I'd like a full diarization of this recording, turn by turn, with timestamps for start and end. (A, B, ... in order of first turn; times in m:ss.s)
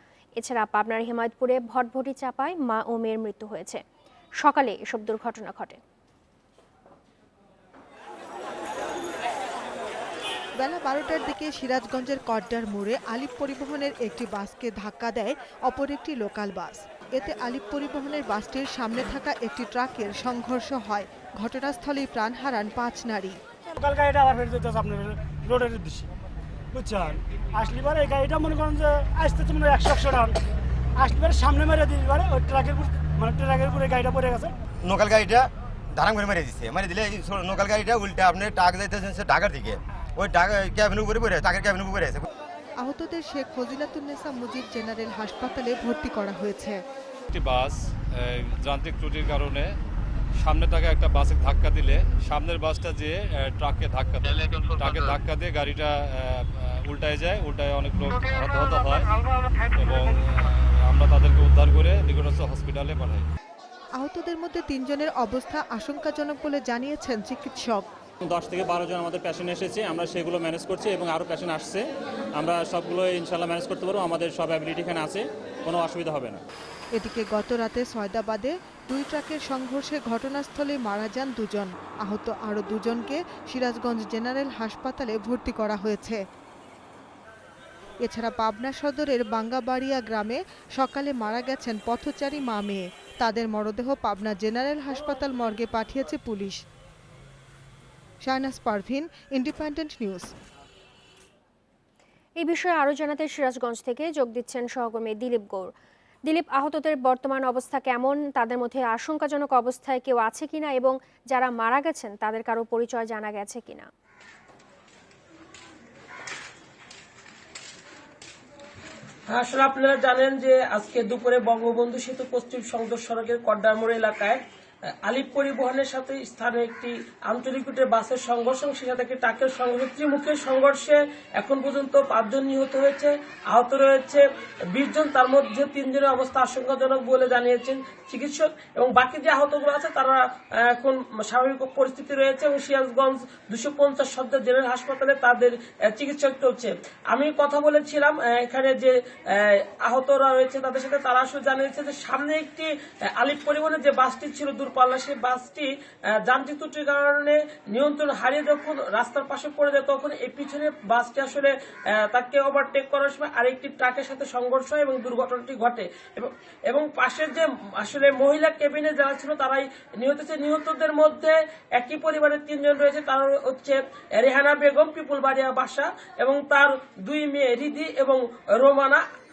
0:00.4-0:03.8 A
0:04.4-0:05.8 A
0:10.6-0:23.4 B
0:23.7-0:26.1 C
0:26.7-0:30.4 C
0:31.0-0:34.5 C
0:34.8-0:42.2 D
0:42.8-0:46.8 B
0:47.3-0:49.7 E
0:50.4-1:03.2 E
1:04.0-1:07.8 B
1:08.2-1:11.8 F
1:12.4-1:16.4 F
1:16.9-1:26.2 B
1:28.0-1:36.6 B
1:38.2-1:40.3 B
1:42.4-1:45.7 A
1:46.3-1:53.9 A
1:59.3-2:04.4 G
2:05.0-2:14.2 G
2:14.7-2:35.7 G
2:36.2-2:41.5 G
2:42.1-2:59.0 G